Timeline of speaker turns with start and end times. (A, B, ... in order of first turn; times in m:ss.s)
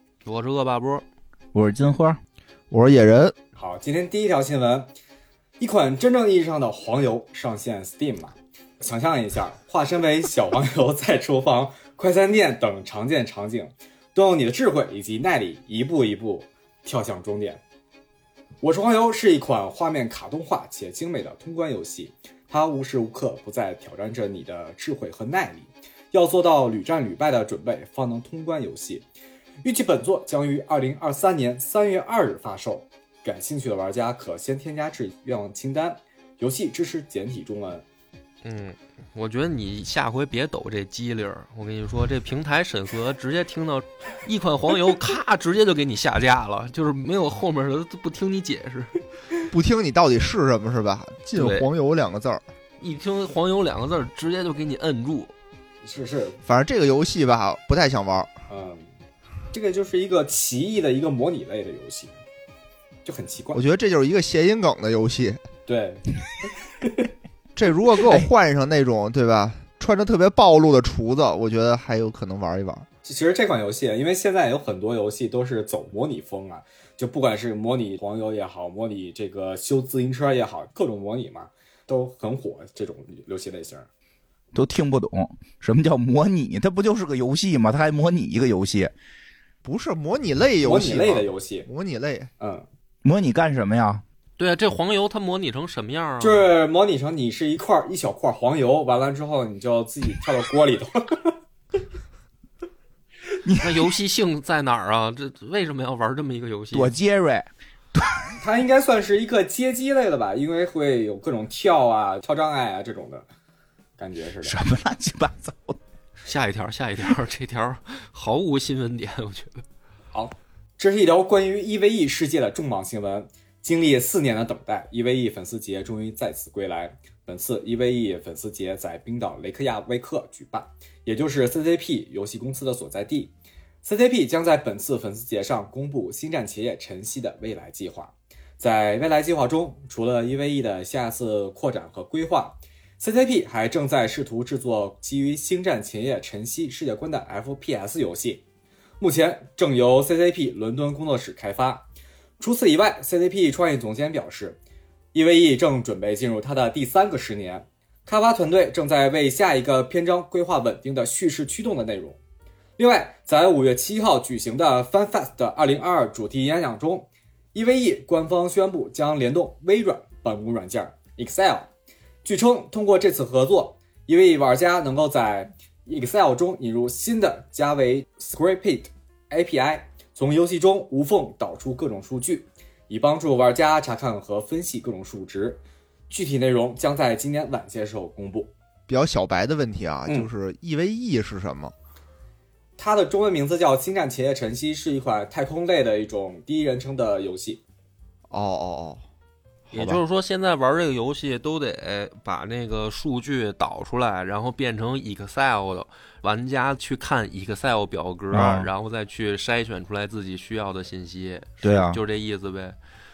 0:00.2-0:01.0 A
0:01.5-0:02.2 B
0:02.7-0:03.3 C
0:03.6-0:04.9 D
0:05.6-0:17.6 D
0:18.6-0:29.0 D
0:29.6-0:37.8 D
0:38.4-0:49.0 A
0:49.5-0:52.4 C
0:51.3-0:51.7 A
0:52.8-0:55.3 A
0:55.8-0:56.4 D
0:56.4-0:58.3 C
0:58.5-0:58.8 D
0:59.5-1:02.2 D
1:03.0-1:03.6 D
1:03.5-1:05.4 C
1:05.7-1:07.1 D
1:07.6-1:12.8 C
1:13.0-1:23.9 D
1:24.5-1:28.9 B
1:29.6-1:32.3 C
1:30.6-1:31.7 D
1:32.4-1:32.6 D
1:33.0-1:34.0 B
1:34.4-1:36.5 A
1:36.2-1:41.4 D
1:43.3-1:43.9 B
1:43.6-1:46.9 A
1:46.7-1:48.4 B
1:48.4-1:53.2 D
1:54.0-1:54.6 D
1:54.4-1:55.8 B
1:56.2-1:59.6 A
2:00.1-2:13.3 D
2:13.8-2:28.4 D
2:29.0-2:31.9 D
2:32.4-2:34.6 D
2:35.1-2:42.2 D
2:42.8-2:51.7 D
2:52.2-3:08.5 D
3:08.9-3:11.7 C
3:12.8-3:17.6 D
3:18.3-3:19.0 C
3:19.7-3:20.0 C
3:19.7-3:32.8 A
3:28.3-3:28.7 B
3:28.3-3:28.6 C
3:31.6-3:32.0 B